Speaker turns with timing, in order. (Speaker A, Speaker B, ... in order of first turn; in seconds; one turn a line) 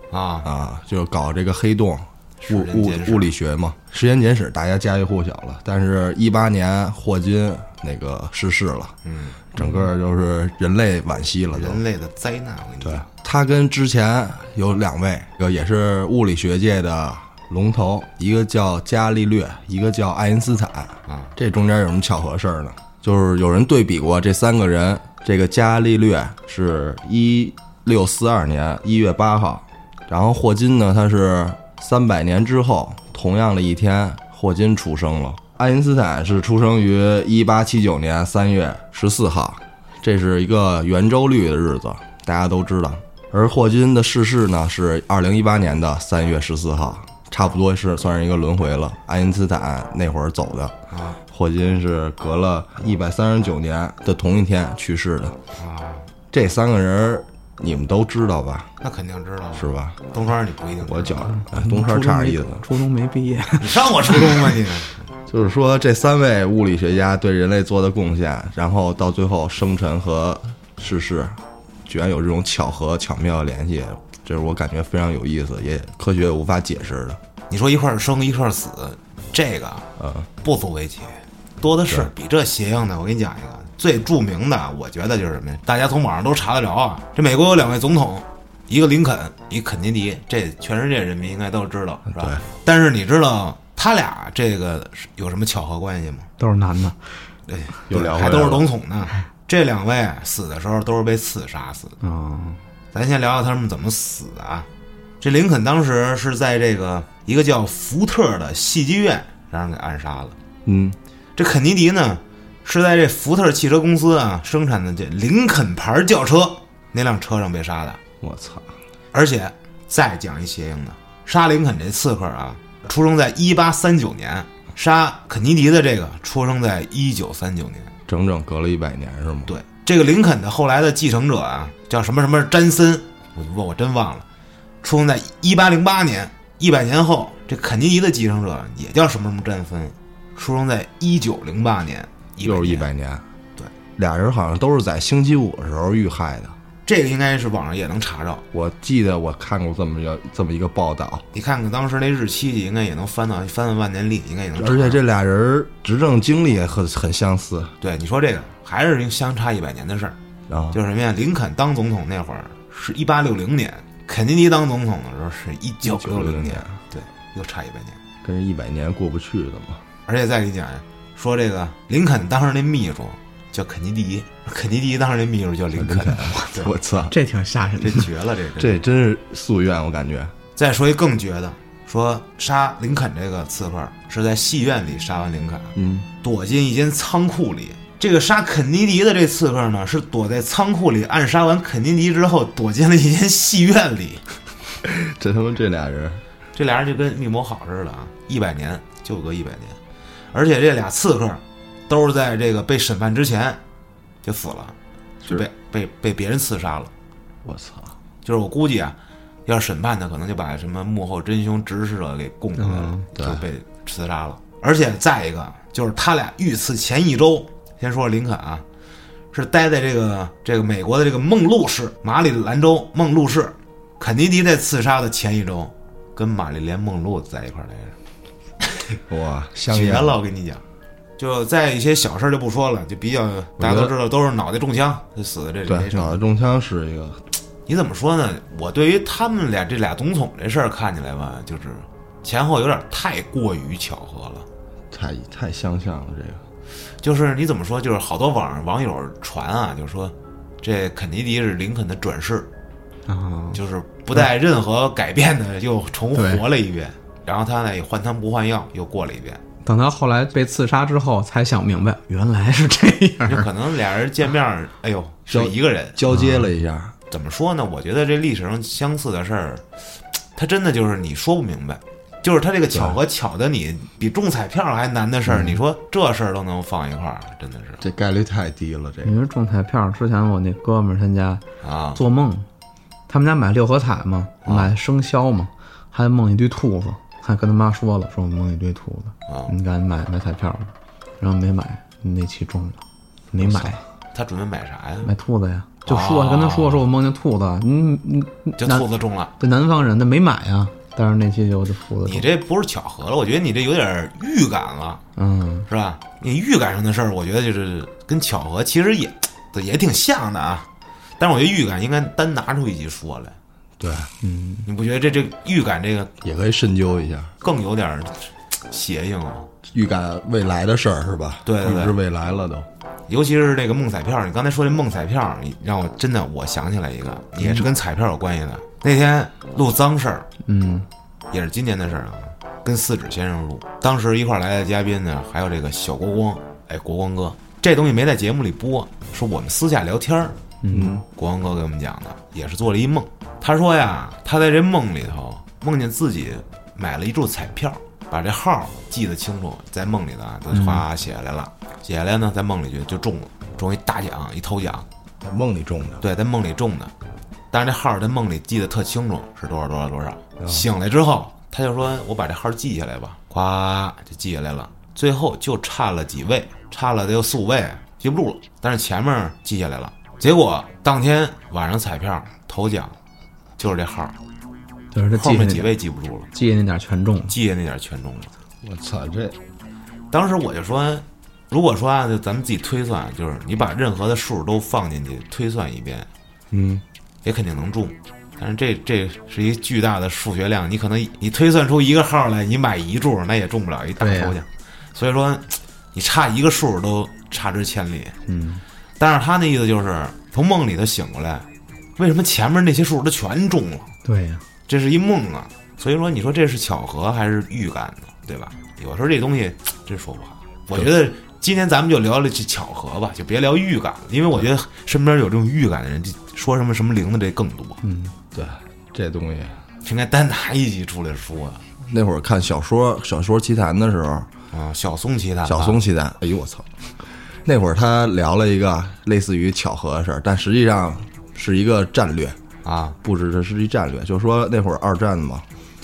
Speaker A: 0.1-0.5
Speaker B: 0.4-9.0
Speaker A: 2.4-3.3
Speaker A: 9.1-9.5
Speaker B: 9.5-11.8
Speaker A: 11.5-13.1
Speaker B: 12.8-50.8
Speaker A: 21.1-21.3
Speaker A: 50.9-51.2
Speaker B: 51.3-55.4
Speaker A: 55.6-56.1
Speaker B: 56.3-58.7
Speaker A: 58.8-61.3
Speaker B: 59.5-60.0
Speaker B: 60.8-62.6
Speaker C: 61.3-64.6
Speaker A: 63.6-65.0
Speaker B: 65.3-77.2
Speaker A: 77.5-79.9
Speaker B: 80.0-80.3
Speaker A: 80.4-96.3
Speaker B: 92.1-92.4
Speaker C: 96.4-97.1
Speaker A: 97.5-102.0
Speaker B: 97.9-98.7
Speaker C: 102.0-102.6
Speaker A: 102.9-104.7
Speaker A: 105.2-110.4
Speaker B: 110.7-111.0
Speaker A: 111.4-118.0
Speaker B: 118.2-118.7
Speaker A: 119.1-127.9
Speaker B: 128.1-129.5
Speaker A: 129.5-134.3
Speaker A: 134.8-142.9
Speaker B: 142.4-143.2
Speaker B: 144.0-146.6
Speaker A: 146.9-148.4
Speaker B: 148.5-151.3
Speaker A: 151.3-155.0
Speaker B: 154.6-157.7
Speaker A: 157.8-160.2
Speaker B: 160.5-160.8
Speaker A: 160.7-168.0
Speaker B: 165.9-166.8
Speaker B: 168.2-169.8
Speaker A: 170.1-176.8
Speaker B: 175.8-177.2
Speaker C: 177.1-178.1
Speaker A: 177.8-178.8
Speaker B: 178.6-180.3
Speaker A: 180.6-194.2
Speaker B: 185.8-186.1
Speaker B: 194.8-196.2
Speaker A: 196.6-199.8
Speaker A: 200.3-203.6
Speaker A: 204.2-206.9
Speaker B: 207.4-207.9
Speaker A: 208.2-218.6
Speaker C: 212.6-213.1
Speaker B: 213.2-213.4
Speaker A: 219.3-228.0
Speaker B: 229.1-230.2
Speaker A: 229.7-230.6
Speaker A: 231.2-236.2
Speaker B: 233.6-233.9
Speaker B: 235.7-237.2
Speaker A: 237.7-244.5
Speaker B: 244.9-246.4
Speaker A: 247.0-252.5
Speaker C: 253.1-253.6
Speaker A: 253.5-259.4
Speaker C: 256.1-256.4
Speaker C: 259.6-263.5
Speaker A: 263.3-266.0
Speaker B: 265.3-266.9
Speaker C: 266.1-266.4
Speaker A: 267.1-269.7
Speaker A: 270.4-277.8
Speaker B: 272.7-273.0
Speaker B: 277.8-279.1
Speaker C: 279.0-281.4
Speaker A: 281.6-282.0
Speaker C: 282.0-282.5
Speaker C: 283.1-292.8
Speaker A: 284.4-284.7
Speaker A: 289.3-289.5
Speaker C: 293.3-293.8
Speaker A: 293.5-295.1
Speaker C: 295.0-298.9
Speaker A: 295.9-296.8
Speaker A: 298.6-299.3
Speaker C: 299.4-302.3
Speaker A: 302.1-305.0
Speaker C: 305.2-305.7
Speaker A: 305.7-310.7
Speaker A: 311.2-313.4
Speaker B: 313.8-314.1
Speaker C: 314.2-314.7
Speaker A: 314.7-316.1
Speaker B: 316.2-317.3
Speaker A: 317.4-319.5
Speaker B: 319.7-322.7
Speaker A: 321.5-322.0
Speaker A: 323.1-330.3
Speaker C: 330.4-330.9
Speaker A: 331.3-340.4
Speaker C: 340.6-341.0
Speaker B: 340.7-341.0
Speaker A: 341.1-354.9
Speaker C: 350.5-350.9
Speaker B: 355.2-356.0
Speaker A: 356.0-356.9
Speaker A: 357.5-372.9
Speaker B: 360.4-360.7
Speaker A: 373.6-374.2
Speaker C: 374.9-375.7
Speaker A: 375.2-376.3
Speaker C: 376.3-377.4
Speaker A: 377.3-378.3
Speaker B: 378.6-379.4
Speaker A: 380.1-386.1
Speaker B: 386.5-386.8
Speaker A: 387.2-398.2
Speaker C: 394.0-394.4
Speaker C: 398.3-398.6
Speaker A: 399.0-401.5
Speaker A: 402.0-403.9
Speaker C: 404.1-404.4
Speaker A: 404.7-417.8
Speaker C: 417.8-418.1
Speaker B: 418.3-419.6
Speaker A: 419.8-421.6
Speaker B: 421.8-424.3
Speaker A: 424.5-425.8
Speaker B: 425.4-426.7
Speaker B: 427.4-432.4
Speaker A: 432.6-433.0
Speaker B: 433.0-435.4